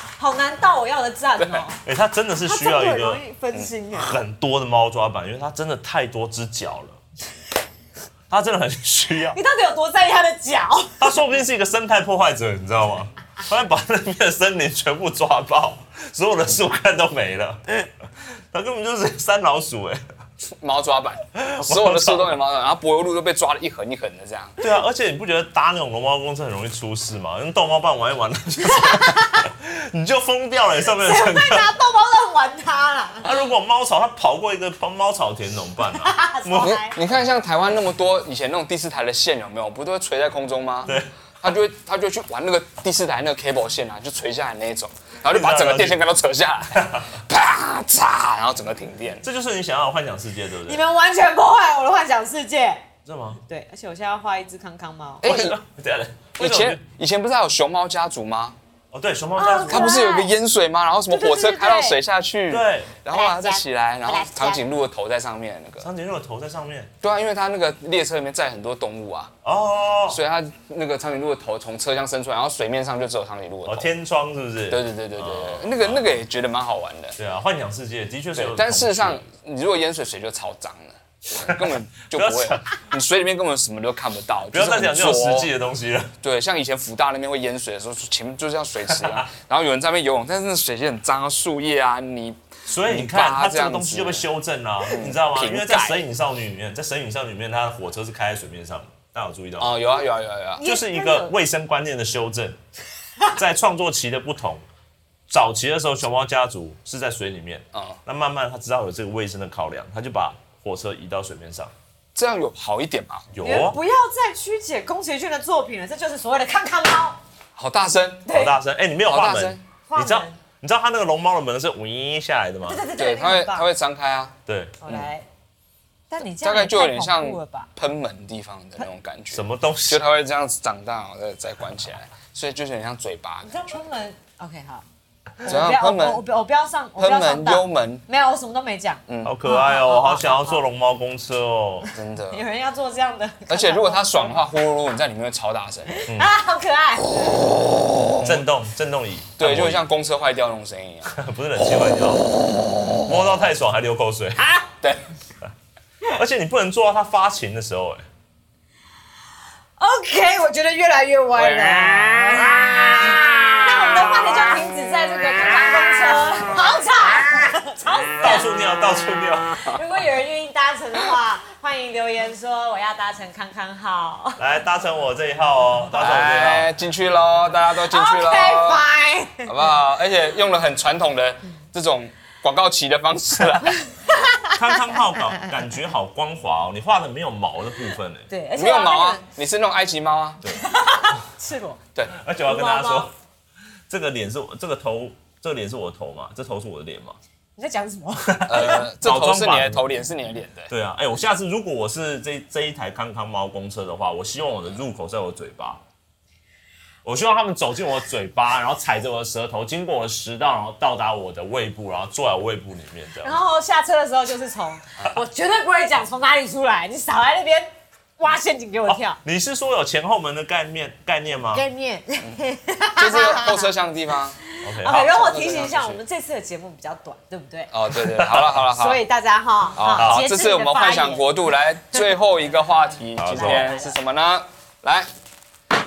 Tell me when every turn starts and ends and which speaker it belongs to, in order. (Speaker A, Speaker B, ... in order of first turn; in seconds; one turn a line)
Speaker A: 0.2-1.8
Speaker B: 1.4-1.7
Speaker C: 1.8-3.2
Speaker A: 2.4-4.2
Speaker C: 3.9-7.0
Speaker C: 8.3-9.4
Speaker A: 9.3-11.2
Speaker C: 11.0-17.9
Speaker C: 18.5-20.0
Speaker B: 20.4-24.6
Speaker C: 21.4-22.4
Speaker C: 24.6-31.7
Speaker A: 28.7-29.4
Speaker A: 31.0-33.3
Speaker C: 33.2-36.8
Speaker A: 36.0-37.0
Speaker B: 36.6-49.2
Speaker C: 40.9-41.1
Speaker C: 45.3-46.0
Speaker C: 46.7-47.1
Speaker C: 49.2-50.8
Speaker A: 50.7-52.9
Speaker C: 53.0-53.4
Speaker A: 53.5-55.2
Speaker B: 55.2-55.6
Speaker C: 55.2-56.8
Speaker B: 56.4-58.6
Speaker C: 58.9-60.0
Speaker A: 59.4-60.3
Speaker B: 59.7-65.9
Speaker A: 61.1-62.0
Speaker C: 62.5-63.0
Speaker A: 63.1-64.6
Speaker C: 65.8-66.9
Speaker B: 67.0-69.3
Speaker C: 69.4-70.2
Speaker B: 70.1-73.9
Speaker C: 73.7-76.2
Speaker B: 74.7-77.2
Speaker C: 77.2-79.2
Speaker B: 78.4-85.5
Speaker C: 81.4-82.8
Speaker C: 84.5-86.1
Speaker B: 86.2-94.2
Speaker C: 88.9-89.2
Speaker C: 92.7-99.7
Speaker B: 94.9-96.0
Speaker B: 99.6-100.6
Speaker A: 100.6-101.3
Speaker C: 100.6-102.6
Speaker C: 103.3-104.6
Speaker C: 105.3-111.7
Speaker B: 107.7-108.0
Speaker B: 112.2-113.3
Speaker C: 113.3-113.8
Speaker A: 113.4-117.2
Speaker B: 117.6-118.3
Speaker A: 118.3-118.5
Speaker C: 118.3-122.8
Speaker B: 119.1-119.6
Speaker A: 119.9-120.4
Speaker A: 122.7-123.7
Speaker B: 123.0-124.3
Speaker C: 124.5-124.8
Speaker A: 124.8-125.3
Speaker A: 126.1-127.7
Speaker B: 126.2-133.6
Speaker C: 129.3-130.1
Speaker A: 133.4-134.8
Speaker A: 135.4-140.6
Speaker B: 135.4-136.2
Speaker B: 137.0-138.0
Speaker B: 139.1-139.3
Speaker C: 139.2-141.9
Speaker B: 141.9-142.4
Speaker A: 142.3-144.4
Speaker B: 143.5-146.1
Speaker A: 145.9-147.6
Speaker B: 147.7-148.5
Speaker C: 148.2-149.8
Speaker B: 149.4-151.2
Speaker C: 151.1-152.3
Speaker C: 153.0-154.6
Speaker C: 156.1-158.1
Speaker A: 159.8-168.4
Speaker B: 161.4-164.1
Speaker C: 168.2-169.5
Speaker A: 169.6-174.4
Speaker C: 174.4-176.7
Speaker B: 175.9-178.9
Speaker A: 177.8-179.5
Speaker B: 179.4-183.8
Speaker A: 183.8-184.9
Speaker C: 184.5-188.3
Speaker A: 188.3-189.2
Speaker B: 188.6-190.4
Speaker C: 190.4-191.2
Speaker A: 190.5-191.8
Speaker C: 192.1-193.1
Speaker A: 192.4-193.1
Speaker C: 193.9-197.2
Speaker A: 197.6-198.9
Speaker C: 198.3-199.9
Speaker B: 198.5-200.7
Speaker C: 200.7-205.8
Speaker C: 207.0-213.4
Speaker A: 213.2-219.2
Speaker C: 218.9-221.7
Speaker A: 221.5-223.7
Speaker B: 223.0-224.4
Speaker A: 224.5-227.7
Speaker C: 224.6-225.2
Speaker B: 224.9-226.0
Speaker B: 227.7-229.0
Speaker C: 227.9-228.6
Speaker A: 228.7-232.1
Speaker B: 229.8-235.1
Speaker C: 230.0-230.3
Speaker C: 233.2-233.7
Speaker A: 233.3-234.0